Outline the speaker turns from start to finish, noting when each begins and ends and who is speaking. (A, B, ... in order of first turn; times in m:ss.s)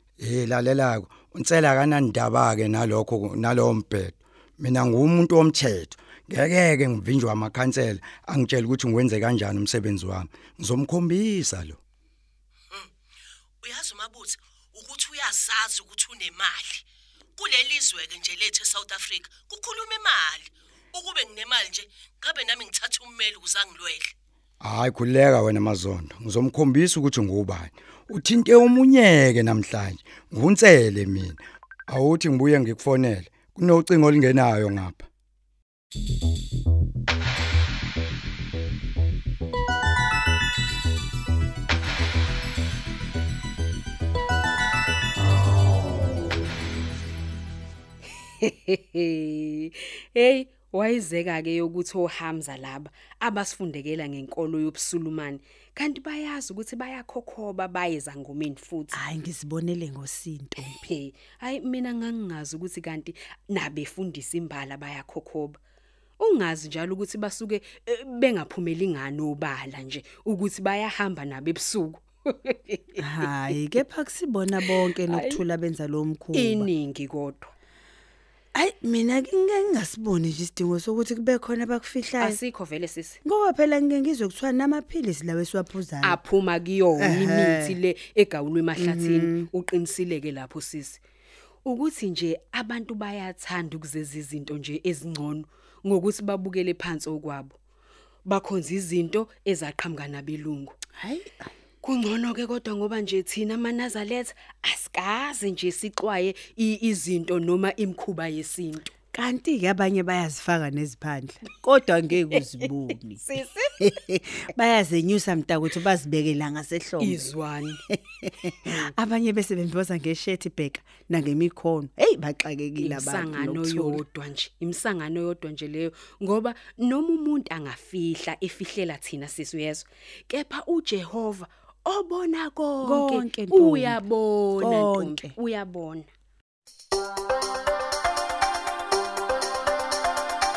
0:00.2-0:11.8 A
0:13.6-0:16.8 B
0:17.4-0:24.1 B
0:24.6-0:31.4 A
0:31.9-0:35.1 A
0:48.4-0:59.0 C
0:58.9-1:00.8 D
1:00.6-1:05.6 C
1:06.2-1:13.0 C
1:13.0-1:16.7 D
1:15.1-1:15.4 C
1:16.3-1:17.5 C
1:18.5-1:22.4 D
1:22.2-1:23.2 C
1:23.2-1:26.2 D
1:26.0-1:31.0 C
1:27.0-1:27.7 D
1:28.8-1:29.5 D
1:31.6-1:37.6 C
1:38.2-1:40.7 C
1:41.0-1:41.5 D
1:41.8-1:48.9 C
1:49.1-1:53.2 D
1:53.2-1:53.8 C
1:53.8-1:57.3 D
1:57.0-1:57.8 C
1:57.9-2:04.0 D
2:02.8-2:16.1 C
2:12.8-2:14.0 D
2:14.6-2:15.3 D